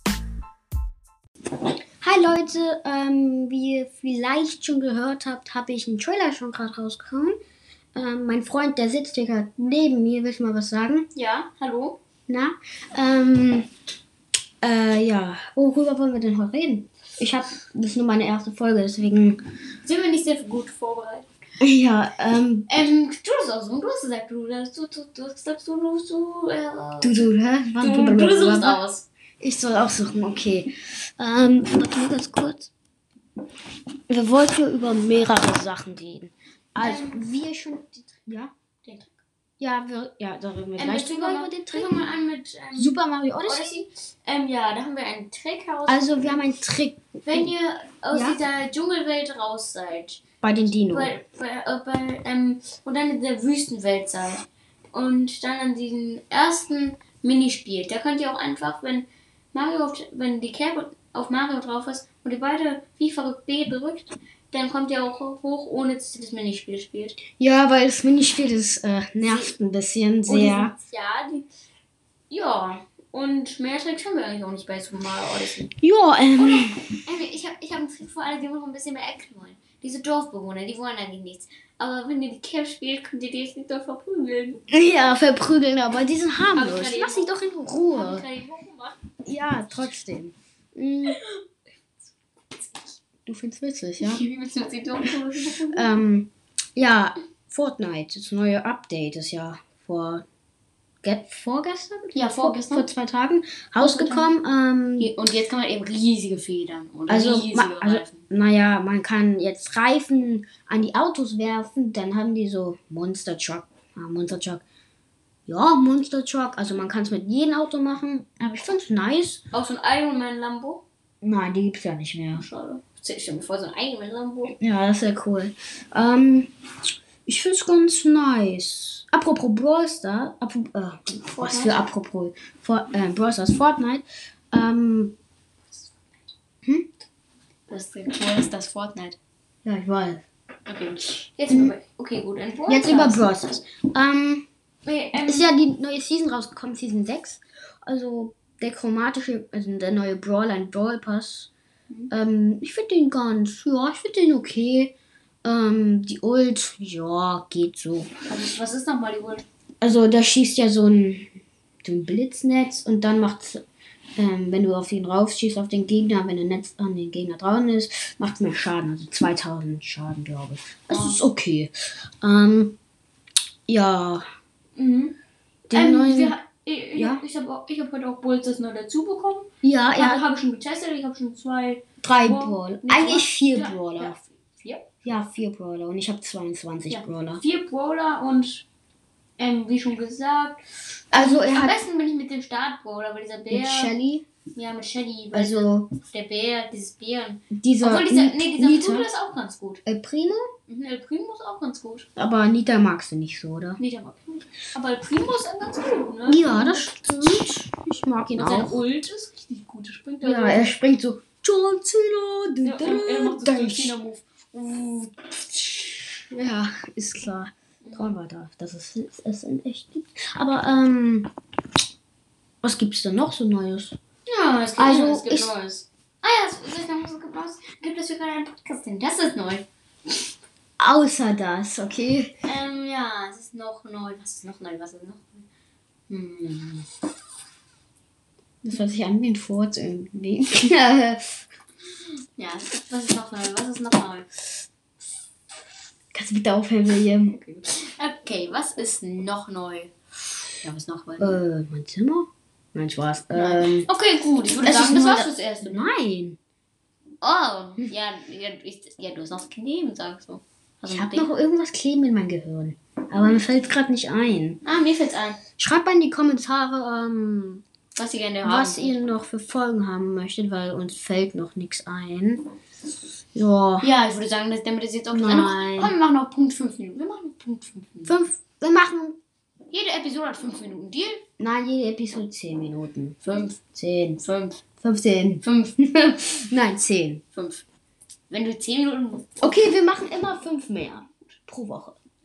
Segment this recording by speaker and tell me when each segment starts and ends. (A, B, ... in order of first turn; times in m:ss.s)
0:02.0-0:07.4 A
0:08.0-0:11.1 A
0:11.1-0:12.0 B
0:12.3-0:13.7 A
0:14.6-0:19.4 A
0:19.8-0:21.3 B
0:21.6-0:22.7 A
0:22.7-0:29.1 B
0:27.0-0:28.8 A
0:29.4-0:32.7 A
0:34.1-0:38.5 A
0:36.8-0:37.2 B
0:38.8-0:39.2 B
0:39.6-0:42.1 A
0:40.8-0:46.4 B
0:42.7-0:43.8 A
0:45.9-0:47.5 A
0:47.3-0:50.2 B
0:48.1-0:48.4 A
0:50.4-0:51.1 A
0:50.8-1:07.2 B
1:07.4-1:10.7 A
1:09.2-1:09.5 B
1:10.3-1:11.5 B
1:12.3-1:15.7 B
1:15.8-1:16.9 A
1:16.5-1:24.6 B
1:24.7-1:28.3 A
1:26.5-1:27.3 B
1:27.9-1:29.0 B
1:29.2-1:31.2 A
1:31.1-1:31.4 B
1:33.2-1:34.2 A
1:34.0-1:35.9 B
1:35.7-1:40.2 A
1:41.0-1:45.1 A
1:42.1-1:42.9 B
1:43.8-1:44.3 B
1:45.0-1:48.2 B
1:47.1-1:54.6 A
1:55.5-1:59.4 A
1:59.5-2:00.8 B
2:01.2-2:02.5 A
2:02.4-2:04.6 B
2:04.6-2:06.5 A
2:07.2-2:15.2 A
2:11.2-2:11.9 B
2:17.7-2:19.2 B
2:19.6-2:20.2 A
2:20.7-2:23.3 B
2:21.5-2:21.8 A
2:22.7-2:24.5 A
2:24.8-2:25.5 B
2:25.1-2:31.5 A
2:32.1-2:38.1 A
2:38.3-2:39.4 B
2:39.8-2:43.6 A
2:44.2-2:52.8 A
2:50.9-2:51.2 B
2:53.7-2:54.2 A
2:54.8-2:55.2 B
2:55.7-2:56.4 A
2:55.7-3:04.9 B
2:56.9-2:57.2 A
2:59.6-3:00.2 A
3:02.0-3:04.2 A
3:05.0-3:07.4 A
3:06.9-3:08.7 B
3:09.4-3:13.9 B
3:11.1-3:11.8 A
3:13.5-3:14.3 A
3:14.6-3:19.8 B
3:15.3-3:15.9 A
3:17.5-3:19.1 A
3:19.9-3:20.5 A
3:20.7-3:22.1 B
3:22.2-3:23.8 A
3:23.8-3:27.4 B
3:26.2-3:28.8 A
3:28.3-3:30.7 B
3:30.2-3:34.0 A
3:32.6-3:36.0 B
3:36.3-3:41.3 A
3:37.8-3:38.2 B
3:42.6-3:44.0 A
3:44.3-3:49.7 B
3:44.8-3:45.5 A
3:50.8-3:52.3 A
3:52.4-3:55.5 B
3:56.1-3:56.9 B
3:58.6-4:01.4 A
4:02.0-4:04.3 B
4:06.1-4:07.4 A
4:07.3-4:09.9 B
4:10.6-4:11.4 B
4:11.2-4:13.9 A
4:13.3-4:15.9 B
4:14.6-4:16.4 A
4:17.2-4:21.3 B
4:20.9-4:24.6 A
4:24.6-4:25.4 B
4:25.6-4:27.6 A
4:27.9-4:29.0 B
4:28.4-4:32.5 A
4:33.4-4:33.9 A
4:33.8-4:38.2 B
4:35.1-4:35.9 A
4:38.0-4:39.2 A
4:39.7-4:41.2 B
4:41.4-4:43.2 A
4:43.2-4:43.6 B
4:43.7-4:44.2 A
4:44.2-4:44.6 B
4:44.8-4:47.2 A
4:45.4-4:45.9 B
4:47.3-4:47.6 B
4:48.3-4:49.6 B
4:49.4-4:52.0 A